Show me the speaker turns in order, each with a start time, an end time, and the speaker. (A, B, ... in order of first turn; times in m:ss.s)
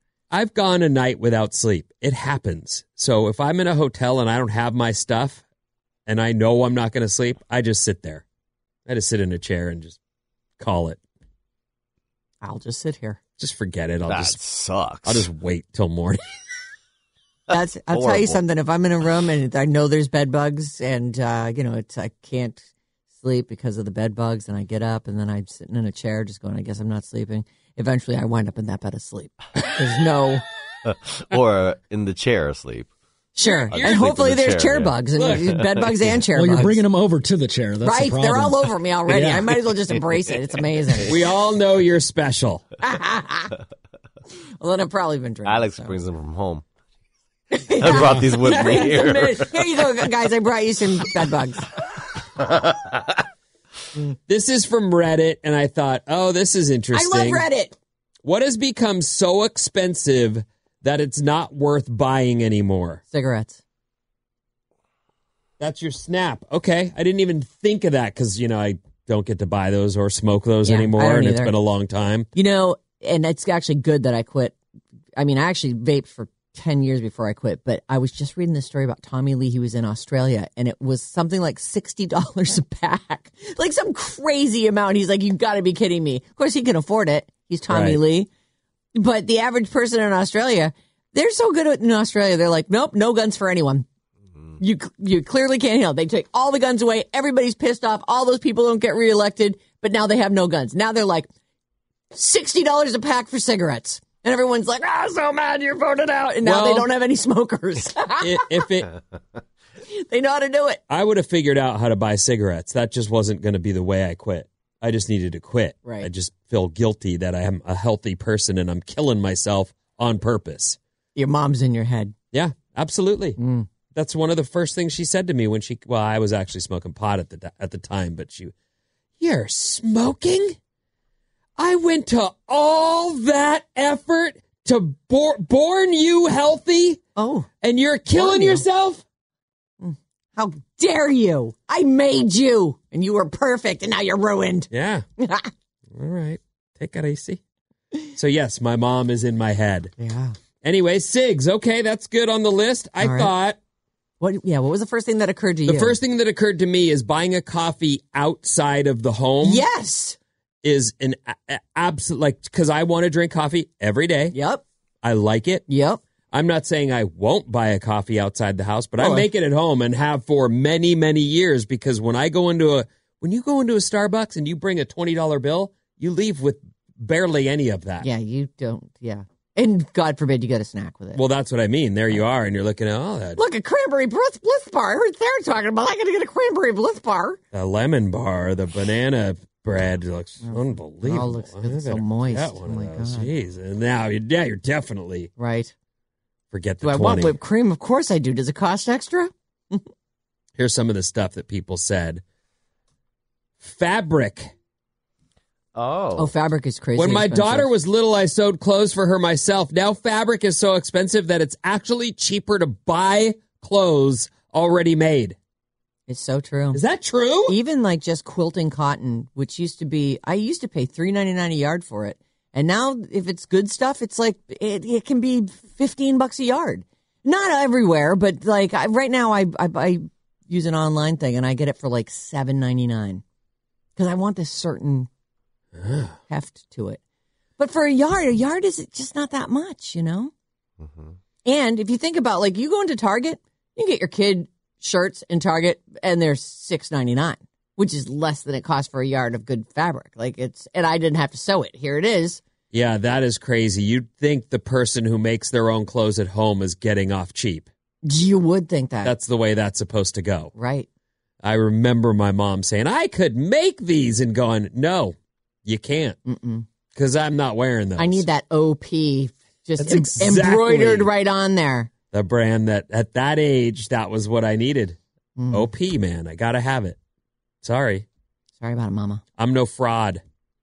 0:00.3-0:05.4 A
0:06.0-0:08.2 A
0:08.9-0:10.0 A
0:10.6-0:11.0 A
0:12.4-0:13.2 B
0:13.4-0:14.4 A
0:14.1-0:15.3 C
0:15.0-0:16.2 A
0:17.5-0:22.6 B
0:17.9-0:18.4 C
0:23.2-0:30.4 B
0:30.8-0:32.9 C
0:33.4-0:36.8 B
0:33.4-0:34.0 A
0:33.7-0:36.1 C
0:35.2-0:35.4 A
0:36.3-0:39.6 D
0:37.8-0:41.1 B
0:41.0-0:42.6 A
0:42.8-0:43.5 B
0:44.6-0:46.0 B
0:45.4-0:46.6 C
0:47.5-0:51.7 B
0:47.8-0:49.7 C
0:48.0-0:48.2 D
0:52.4-0:53.1 C
0:54.3-0:57.4 A
0:56.9-0:57.7 B
0:58.2-1:03.0 A
1:03.1-1:03.6 B
1:05.6-1:12.3 A
1:10.6-1:11.5 B
1:12.3-1:14.6 B
1:15.2-1:28.3 B
1:27.7-1:28.0 A
1:28.9-1:33.9 B
1:34.6-1:41.3 B
1:42.1-1:48.6 B
1:46.4-1:46.9 A
1:48.2-1:48.9 A
1:49.9-1:50.8 B
1:50.9-2:00.8 A
1:55.8-1:56.1 B
2:01.2-2:02.1 B
2:02.3-2:03.4 A
2:03.4-2:03.7 B
2:03.9-2:08.5 A
2:09.2-2:10.6 A
2:11.6-2:17.0 A
2:17.2-2:17.5 B
2:17.6-2:19.0 A
2:18.1-2:18.6 B
2:19.8-2:25.5 B
2:24.7-2:25.0 A
2:25.9-2:27.4 A
2:28.1-2:29.9 A
2:30.0-2:30.3 B
2:30.6-2:33.6 A
2:33.0-2:33.3 B
2:34.2-2:36.0 B
2:35.7-2:39.6 A
2:39.4-2:40.2 B
2:40.6-2:44.3 A
2:44.3-2:44.6 B
2:45.0-2:45.6 A
2:45.7-2:46.0 B
2:46.3-2:58.1 A
2:49.0-2:49.3 B
2:58.0-3:01.2 B
3:01.1-3:03.4 A
3:03.4-3:07.4 B
3:07.5-3:15.3 A
3:10.4-3:13.3 B
3:15.4-3:15.7 B
3:16.5-3:17.3 A
3:16.8-3:19.8 B
3:20.6-3:22.2 A
3:23.6-3:24.5 A
3:25.7-3:26.3 C
3:26.2-3:27.7 B
3:27.0-3:35.4 A
3:36.1-3:36.8 B
3:36.7-3:37.6 A
3:37.5-3:53.2 B
3:54.0-3:55.1 B
3:55.8-3:56.2 A
3:56.3-3:57.0 B
3:57.6-4:00.3 B
4:00.8-4:01.2 C
4:01.4-4:12.4 B
4:12.7-4:17.7 A
4:18.0-4:19.1 B
4:19.0-4:20.5 A
4:20.5-4:20.9 B
4:21.4-4:26.2 A
4:26.2-4:26.6 B
4:26.9-4:28.2 A
4:28.0-4:31.9 B
4:29.8-4:31.1 A
4:32.1-4:35.0 A
4:35.4-4:35.7 B
4:35.5-4:37.0 A
4:37.6-4:38.0 A
4:38.6-4:39.2 B
4:39.4-4:40.2 A